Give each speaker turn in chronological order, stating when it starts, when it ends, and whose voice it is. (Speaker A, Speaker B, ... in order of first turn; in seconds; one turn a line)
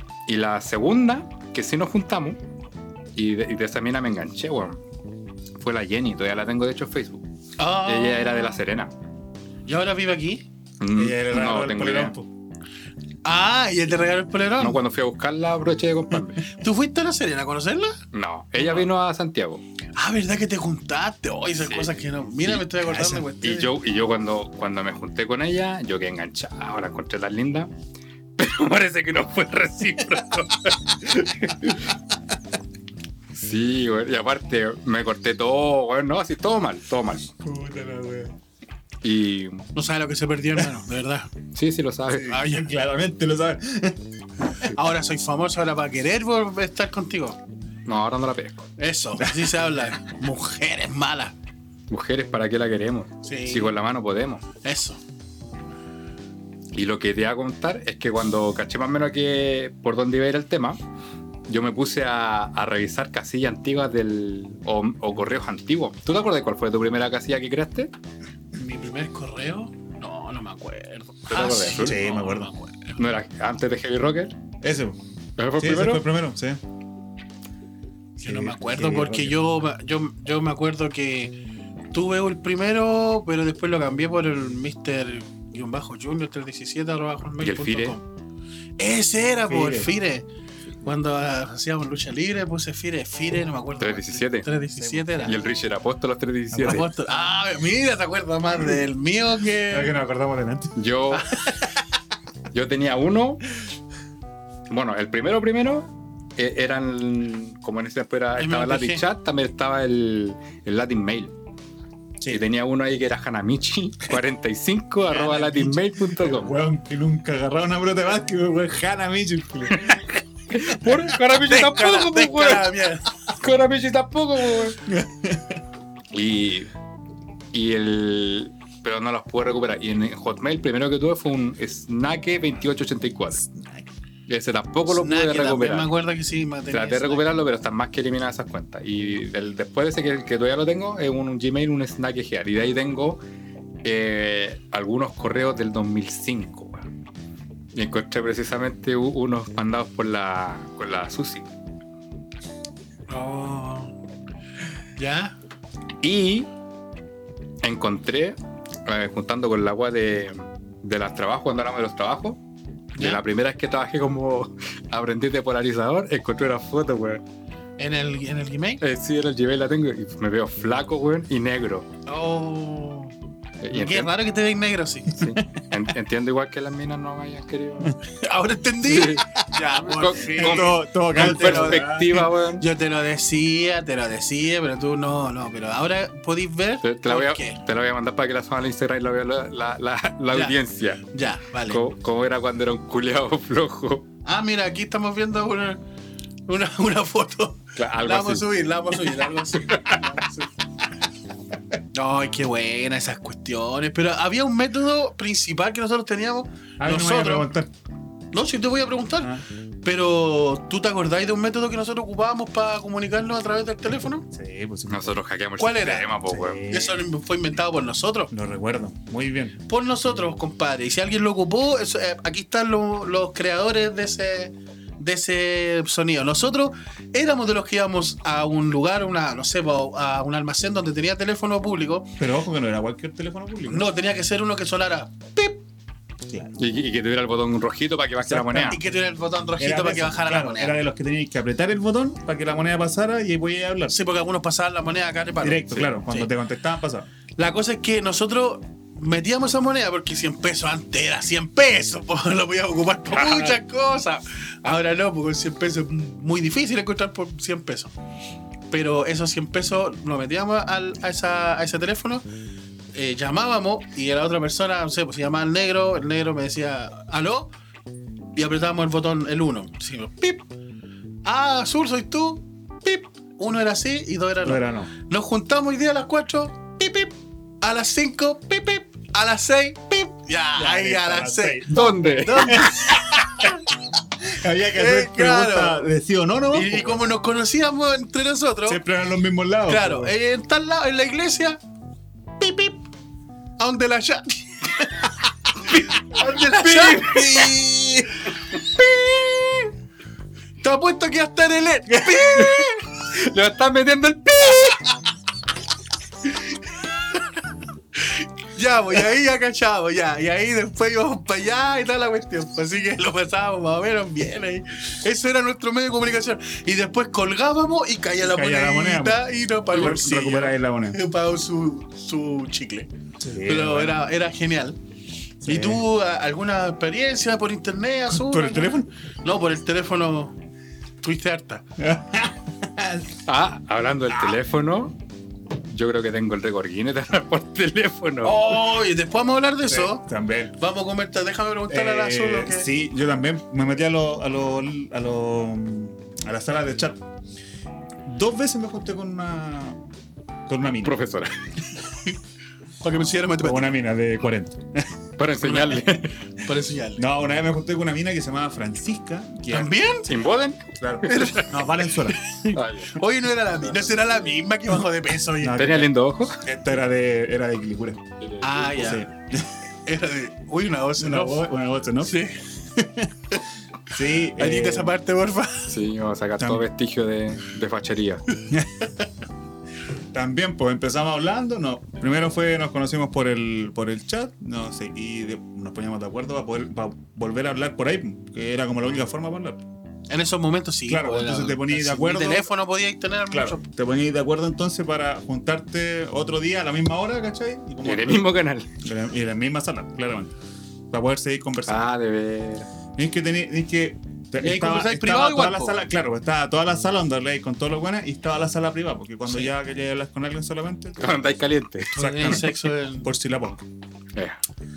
Speaker A: 0.3-2.4
Speaker A: 3.1-4.8
Speaker A: 5.6-7.2
Speaker B: 7.6-8.6
Speaker A: 7.8-8.9
Speaker B: 9.7-10.4
Speaker A: 10.8-12.1
Speaker C: 10.9-12.3
Speaker B: 13.2-14.8
Speaker A: 14.6-16.5
Speaker B: 16.5-18.0
Speaker A: 18.1-19.6
Speaker B: 19.9-23.7
Speaker C: 22.9-23.2
Speaker A: 23.4-27.7
Speaker A: 28.4-31.9
Speaker A: 33.3-37.3
Speaker C: 37.4-38.3
Speaker A: 39.0-39.7
Speaker B: 39.7-41.3
Speaker A: 41.5-42.4
Speaker C: 42.1-44.5
Speaker B: 42.2-42.7
Speaker B: 44.7-47.4
Speaker A: 47.9-48.7
Speaker B: 48.8-51.4
Speaker C: 49.2-49.5
Speaker A: 51.9-54.4
Speaker B: 53.2-53.7
Speaker B: 54.6-55.0
Speaker A: 56.7-60.8
Speaker A: 61.5-67.9
Speaker B: 68.5-73.1
Speaker A: 71.3-72.0
Speaker C: 71.7-72.5
Speaker A: 73.0-74.4
Speaker C: 74.6-75.0
Speaker A: 75.4-76.0
Speaker C: 75.6-76.6
Speaker B: 78.2-81.4
Speaker C: 78.2-79.4
Speaker B: 81.9-88.0
Speaker A: 87.4-88.0
Speaker B: 88.8-90.2
Speaker C: 89.5-89.9
Speaker B: 90.8-95.4
Speaker A: 93.8-94.5
Speaker C: 94.8-95.4
Speaker A: 95.2-96.9
Speaker C: 96.5-96.9
Speaker B: 96.6-99.9
Speaker C: 99.7-100.8
Speaker A: 100.8-101.3
Speaker B: 101.1-101.5
Speaker A: 102.5-103.4
Speaker A: 104.7-111.3
Speaker B: 108.4-109.0
Speaker A: 112.3-116.6
Speaker C: 115.2-120.1
Speaker A: 120.5-122.7
Speaker C: 120.7-121.1
Speaker B: 121.4-123.1
Speaker A: 123.3-124.8
Speaker C: 124.9-125.6
Speaker A: 126.1-126.7
Speaker A: 127.5-133.4
Speaker C: 133.4-133.9
Speaker A: 134.3-135.9
Speaker B: 134.9-137.3
Speaker A: 136.7-143.2
Speaker A: 143.8-146.9
Speaker A: 147.7-151.5
Speaker B: 153.1-153.9
Speaker B: 154.9-155.4
Speaker A: 156.0-156.5
Speaker A: 157.6-162.4
Speaker B: 162.9-163.2
Speaker A: 163.0-167.2
Speaker B: 167.8-168.8
Speaker A: 168.8-171.9
Speaker B: 172.1-173.1
Speaker A: 173.6-174.1
Speaker B: 173.7-175.2
Speaker A: 175.2-178.0
Speaker B: 178.1-187.6
Speaker A: 178.8-182.6
Speaker C: 180.3-182.3
Speaker A: 186.8-191.1
Speaker B: 190.3-190.6
Speaker B: 191.1-191.8
Speaker A: 191.6-194.1
Speaker B: 194.2-195.8
Speaker B: 196.5-200.5
Speaker A: 197.8-198.5
Speaker A: 199.5-200.0
Speaker B: 201.9-207.5
Speaker C: 206.8-207.7
Speaker B: 208.3-214.3
Speaker C: 214.3-215.2
Speaker A: 214.9-216.6
Speaker B: 215.6-216.1
Speaker C: 216.2-217.0
Speaker B: 216.7-218.3
Speaker C: 218.3-219.6
Speaker B: 219.7-232.2
Speaker C: 232.2-233.9
Speaker B: 233.7-235.6
Speaker C: 236.2-236.6
Speaker A: 236.6-238.8
Speaker C: 238.3-238.7
Speaker B: 238.6-240.8
Speaker C: 239.6-243.9
Speaker B: 243.9-246.3
Speaker C: 245.4-247.1
Speaker B: 247.4-257.9
Speaker B: 258.7-262.2
Speaker B: 262.9-267.5
Speaker B: 268.4-270.5
Speaker B: 271.2-283.6
Speaker C: 274.4-274.9
Speaker C: 280.6-283.5
Speaker A: 281.7-282.7
Speaker C: 284.2-287.1
Speaker B: 284.7-285.9
Speaker B: 286.5-288.8
Speaker C: 288.6-290.1
Speaker B: 289.7-291.6
Speaker B: 292.4-292.8
Speaker B: 293.6-297.5
Speaker A: 296.6-297.4
Speaker C: 296.9-298.2
Speaker B: 300.6-302.8
Speaker C: 301.9-302.2
Speaker A: 302.3-304.9
Speaker B: 307.9-322.9
Speaker C: 318.2-321.0
Speaker C: 323.2-324.1
Speaker B: 323.4-324.8
Speaker B: 325.4-330.4
Speaker C: 325.4-325.8
Speaker C: 328.1-328.9
Speaker B: 331.0-331.6
Speaker C: 331.8-333.2
Speaker A: 333.2-334.9
Speaker C: 334.1-334.4
Speaker A: 335.7-338.6
Speaker B: 338.2-342.7
Speaker C: 339.7-340.6
Speaker C: 341.7-347.0
Speaker C: 348.0-349.8
Speaker C: 350.5-351.0
Speaker A: 350.8-351.4
Speaker B: 352.8-353.7
Speaker C: 353.4-354.9
Speaker A: 355.2-356.1
Speaker B: 355.4-357.0
Speaker C: 357.0-359.7
Speaker B: 359.5-360.1
Speaker A: 360.1-361.4
Speaker C: 360.7-362.2
Speaker B: 361.0-365.7
Speaker A: 362.5-363.0
Speaker A: 363.7-364.1
Speaker C: 365.4-368.0
Speaker A: 365.5-366.4
Speaker A: 368.2-368.8
Speaker B: 368.4-369.1
Speaker C: 368.7-369.5
Speaker B: 369.9-371.4
Speaker C: 371.0-372.2
Speaker B: 372.0-372.4
Speaker C: 372.7-373.4
Speaker C: 373.9-374.9
Speaker B: 374.4-375.8
Speaker A: 375.7-378.2
Speaker C: 376.4-376.6
Speaker C: 378.5-379.1
Speaker C: 380.1-389.6
Speaker B: 390.1-393.6
Speaker C: 390.9-392.5
Speaker C: 393.3-398.3
Speaker A: 397.8-398.7
Speaker C: 398.8-400.3
Speaker C: 400.9-401.9
Speaker A: 401.6-402.7
Speaker C: 402.9-411.2
Speaker B: 404.4-405.8
Speaker A: 411.0-412.5
Speaker B: 411.9-413.1
Speaker C: 411.9-413.7
Speaker A: 414.1-414.4